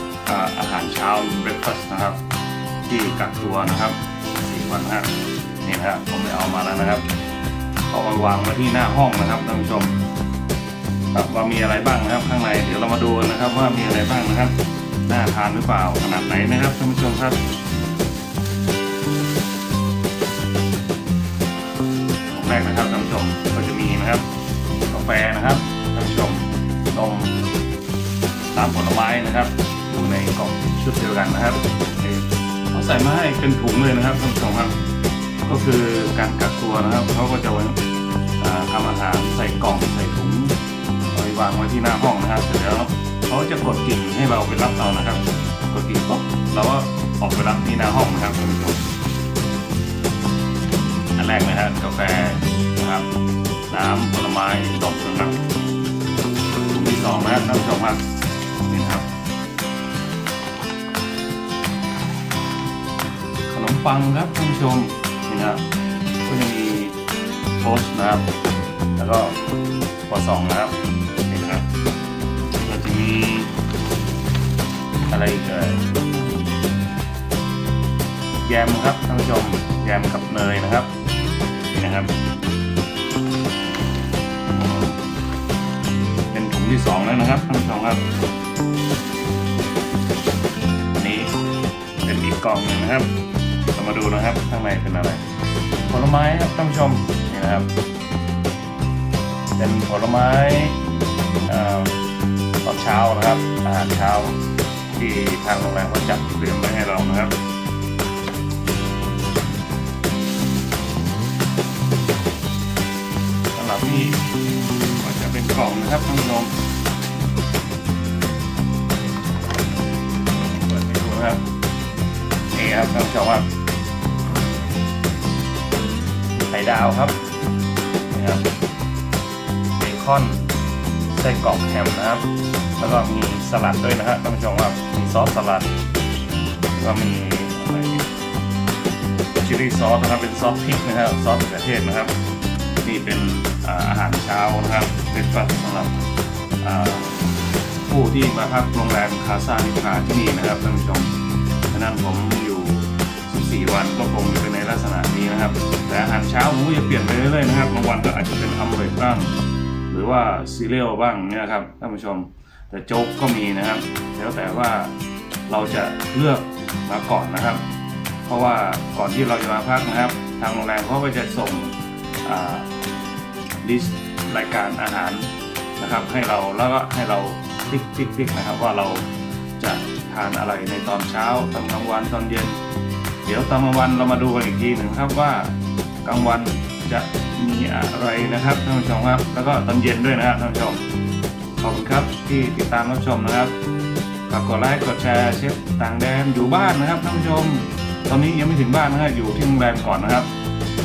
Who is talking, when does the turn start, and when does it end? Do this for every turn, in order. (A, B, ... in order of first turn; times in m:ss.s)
0:00.2-0:02.2 A
0:02.8-0:07.0 A
0:07.9-0:10.0 A
0:11.1-0:17.4 A
0:22.3-0:24.3 A
0:24.9-0:27.4 A
0:28.5-0:34.8 A
0:35.4-0:37.8 A
0:38.4-0:40.6 A
0:41.1-0:48.8 A
0:51.2-0:53.1 A
0:53.7-0:55.4 A
0:56.7-0:58.0 A
0:58.6-0:59.1 A
1:03.5-1:05.6 A
1:06.2-1:07.0 A
1:07.6-1:08.3 A
1:09.0-1:09.4 A
1:10.1-1:11.7 A
1:12.6-1:13.5 A
1:15.1-1:15.9 A
1:18.4-1:20.9 A
1:21.7-1:22.1 A
1:24.5-1:25.0 A
1:26.3-1:28.0 A
1:30.9-1:31.3 A
1:32.0-1:33.1 A
1:33.7-1:35.2 A
1:35.9-1:37.7 A
1:39.6-1:40.8 A
1:41.4-1:42.0 A
1:42.6-1:44.4 A
1:44.9-1:47.3 A
1:53.5-1:54.2 A
1:55.0-1:56.5 A
2:00.4-2:01.4 A
2:02.5-2:03.5 A
2:06.4-2:07.2 A
2:08.1-2:08.5 A
2:09.8-2:10.4 A
2:11.1-2:12.3 A
2:12.8-2:15.7 A
2:16.7-2:18.1 A
2:19.4-2:22.1 A
2:22.8-2:26.0 A
2:26.6-2:27.3 A
2:27.8-2:31.1 A
2:31.7-2:39.3 A
2:39.9-2:44.9 A
2:45.5-2:47.6 A
2:48.3-2:52.7 A
2:53.6-2:59.1 A
2:59.6-3:02.6 A
3:03.2-3:10.8 A
3:11.6-3:13.5 A
3:14.3-3:20.3 A